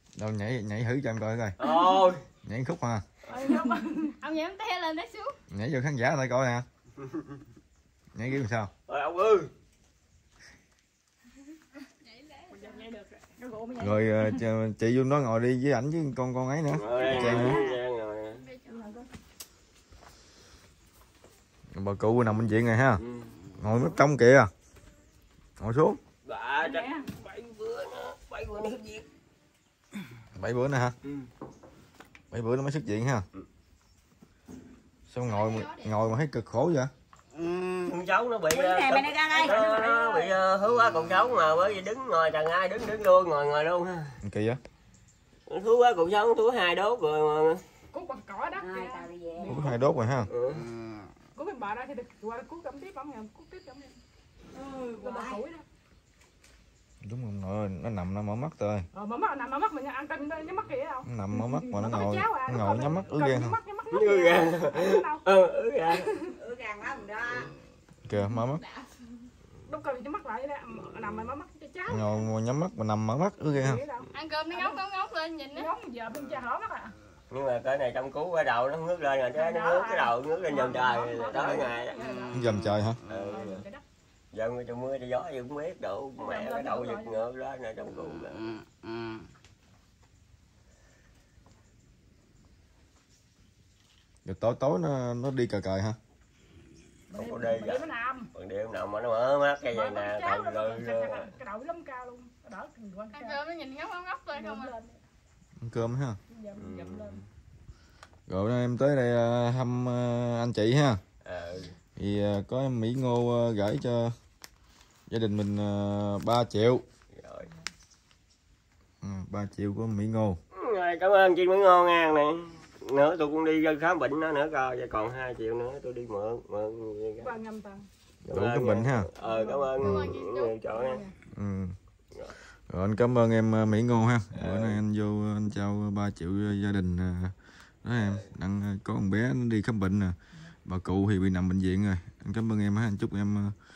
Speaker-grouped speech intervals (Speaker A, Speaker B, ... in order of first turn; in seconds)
Speaker A: 0.1-1.6, 2.4-3.0, 5.5-6.7, 8.1-8.7, 13.8-17.6, 21.7-23.0, 23.6-24.5, 25.6-26.0, 30.3-31.0, 32.3-33.3, 35.1-36.9, 44.2-44.6, 49.5-50.3, 57.0-58.9, 61.0-63.6, 68.1-68.6, 71.9-73.8, 82.3-83.0, 94.2-96.0, 105.6-106.2, 108.3-111.0, 112.0-114.1, 115.1-116.8, 119.0-120.4, 128.3-129.1, 131.3-131.7, 132.7-143.5
Speaker B: 1.6-2.2, 3.3-3.5, 7.0-7.3, 8.9-9.5, 16.7-18.5, 23.0-23.4, 26.2-29.0, 37.7-44.1, 45.5-47.6, 50.3-50.7, 63.9-66.1, 77.3-82.2, 83.0-83.6, 84.3-88.5, 97.1-101.3, 106.5-107.2, 111.2-111.8, 117.1-117.5, 120.5-127.3, 128.3-131.0, 134.3-134.8, 137.9-138.3
Speaker C: 3.3-4.2, 12.5-14.3, 17.0-17.8, 18.7-19.0, 26.6-27.1, 39.4-40.4, 47.9-49.0, 51.3-54.0, 55.0-55.6, 58.9-65.2, 69.7-72.1, 73.4-74.8, 75.5-76.9, 79.3-82.5, 83.3-83.8, 86.2-87.2, 97.1-98.3, 99.7-103.4, 104.3-105.0, 106.3-107.2, 127.2-127.9, 129.2-129.7, 130.7-131.1
Speaker D: 4.2-5.3, 12.3-12.6, 18.4-18.8, 35.3-35.9, 74.1-75.7, 103.1-104.7, 129.8-130.6
Speaker E: 17.1-17.6, 38.5-40.0, 48.5-49.9, 54.5-55.4, 66.3-67.5